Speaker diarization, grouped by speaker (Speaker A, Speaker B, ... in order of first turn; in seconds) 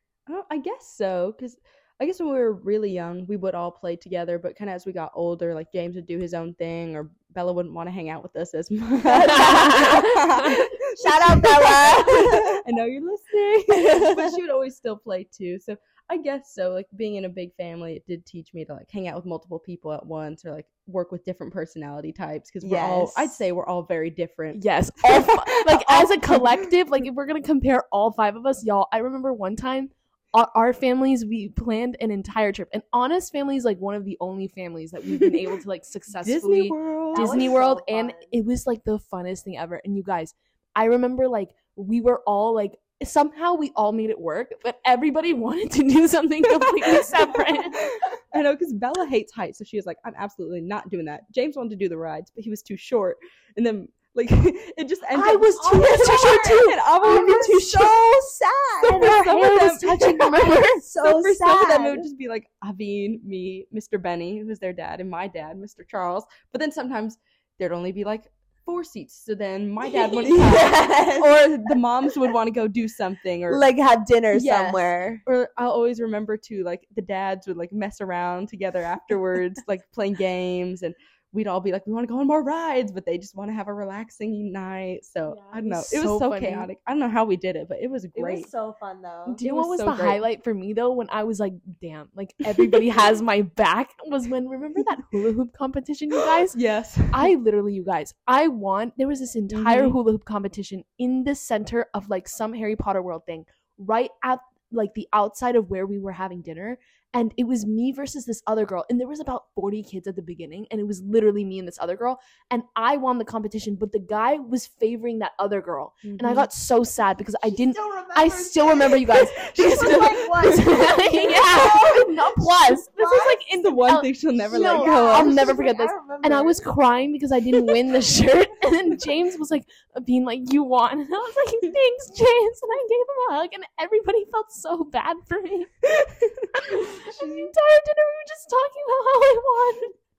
Speaker A: 0.3-26.7, 36.2-37.5, 46.8-47.1, 47.7-57.9, 58.9-73.6, 74.3-88.5, 89.4-90.2, 92.4-92.8, 96.5-97.3, 99.5-100.0, 116.0-116.5, 119.6-120.7, 123.6-125.3, 135.8-136.8
Speaker B: 9.1-10.6, 24.5-47.8, 55.1-58.0, 58.8-60.8, 85.3-86.7, 89.3-96.6, 97.1-135.7, 136.6-139.9
Speaker C: 9.2-9.8, 11.0-12.6, 13.7-14.4, 22.6-23.4, 37.1-38.3, 55.5-59.1, 60.8-62.0, 70.1-71.8, 73.5-75.2, 88.1-89.4, 117.4-123.5, 124.4-126.7, 137.2-137.5